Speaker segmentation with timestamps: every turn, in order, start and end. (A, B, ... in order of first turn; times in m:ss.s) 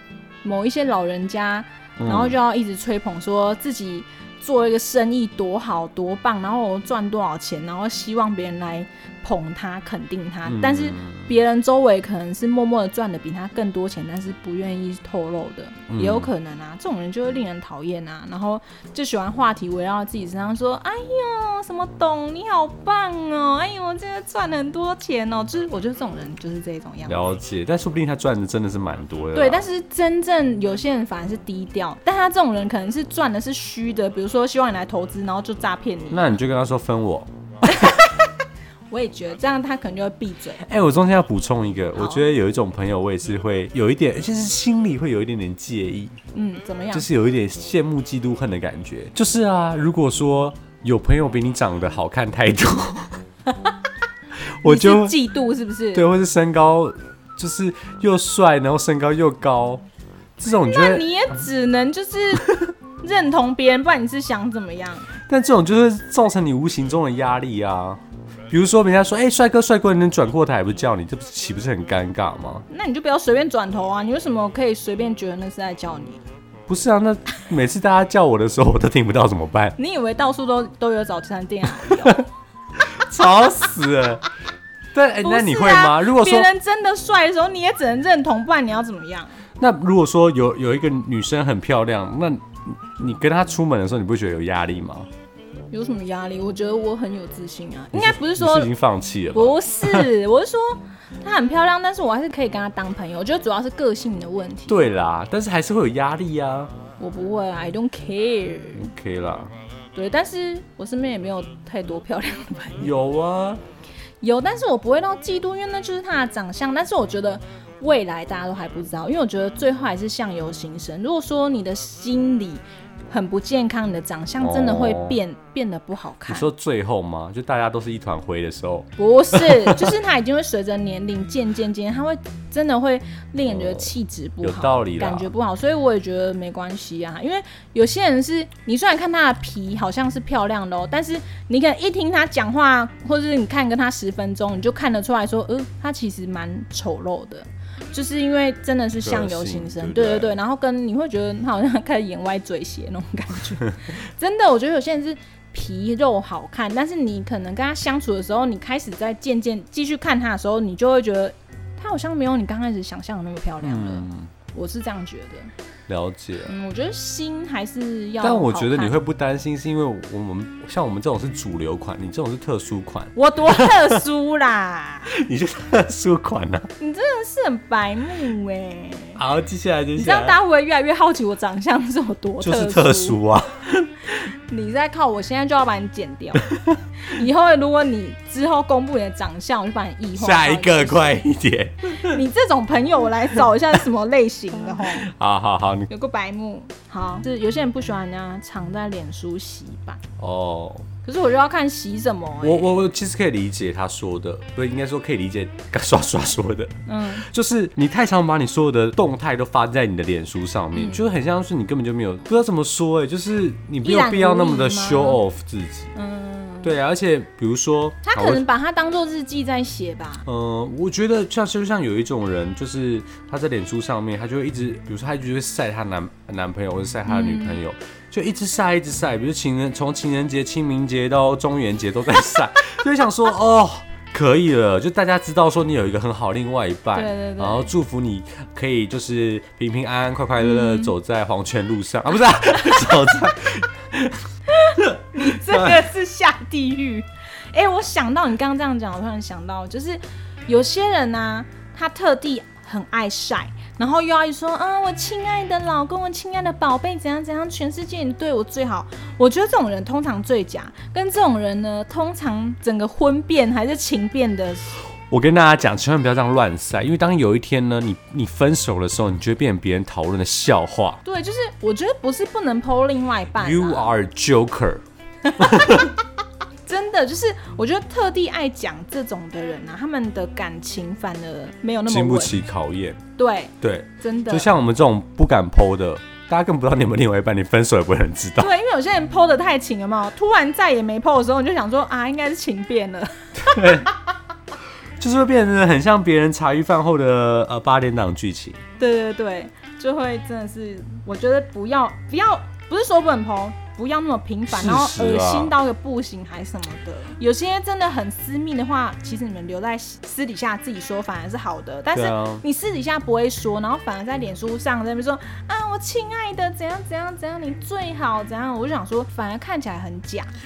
0:00.4-0:27.2 A
0:02.0-0:02.4 B
0:10.4-0:11.3 B
0:15.9-0:16.3 B
0:27.0-0:29.6 B
0:29.3-0:36.4 A
0:36.1-0:37.8 B
0:37.6-0:38.3 A
0:38.9-0:40.7 A
0:40.6-0:46.2 B
0:42.0-0:42.3 A
0:46.3-0:47.1 A
0:46.9-0:53.2 B
0:54.6-0:55.2 B
0:54.6-0:56.1 A
0:55.9-0:59.8 B
1:00.4-1:01.3 B
1:00.6-1:05.1 A
1:05.3-1:12.6 B
1:12.7-1:16.2 A
1:16.7-1:19.8 B
1:19.8-1:22.3 A
1:21.8-1:22.2 B
1:22.8-1:24.2 B
1:24.9-1:26.5 B
1:25.2-1:29.4 A
1:29.6-1:35.1 B
1:35.7-1:38.7 A
1:37.9-1:40.1 B
1:39.3-1:44.8 A
1:44.7-1:46.7 B
1:47.0-1:48.9 A
1:48.8-1:49.5 B
1:49.9-1:52.9 A
1:52.8-1:53.6 B
1:54.2-2:06.5 A
2:04.4-2:05.2 B
2:06.3-2:09.9 B
2:09.0-2:45.5 A
2:13.5-2:13.9 B
2:14.4-2:15.3 B
2:29.0-2:30.4 B
2:43.6-2:44.3 B
2:45.9-2:46.5 B
2:46.4-2:48.9 A
2:48.2-2:53.9 B
2:53.1-2:55.1 A
2:55.1-2:56.7 B
2:56.8-2:59.2 A
2:59.2-3:00.4 B
3:00.0-3:03.2 A
3:02.4-3:04.2 B
3:04.5-3:06.5 A
3:06.4-3:06.8 B
3:07.0-3:11.2 A
3:10.2-3:12.2 B
3:11.9-3:15.1 A
3:14.6-3:15.9 B
3:15.9-3:20.0 A
3:20.2-3:20.9 B
3:21.0-3:22.8 A
3:22.4-3:35.9 B
3:26.9-3:27.3 A
3:30.7-3:31.0 A
3:33.8-3:35.2 A
3:35.9-3:36.7 A
3:36.6-3:38.4 B
3:38.0-3:40.2 A
3:40.2-4:04.3 B
3:47.0-3:47.6 A
3:56.9-3:57.7 A
4:00.4-4:00.9 A
4:04.5-4:24.8 A
4:04.8-4:05.9 B
4:25.1-4:31.0 B
4:31.0-4:33.9 A
4:33.3-4:34.8 B
4:35.2-4:35.9 A
4:35.4-4:35.9 B
4:36.6-4:42.4 A
4:41.9-4:43.0 B
4:43.2-4:44.5 A
4:43.6-4:48.5 B
4:48.4-4:53.9 A
4:53.4-4:53.9 B
4:55.0-4:58.6 B
4:58.8-5:20.3 A
5:04.5-5:05.5 B
5:11.9-5:12.4 B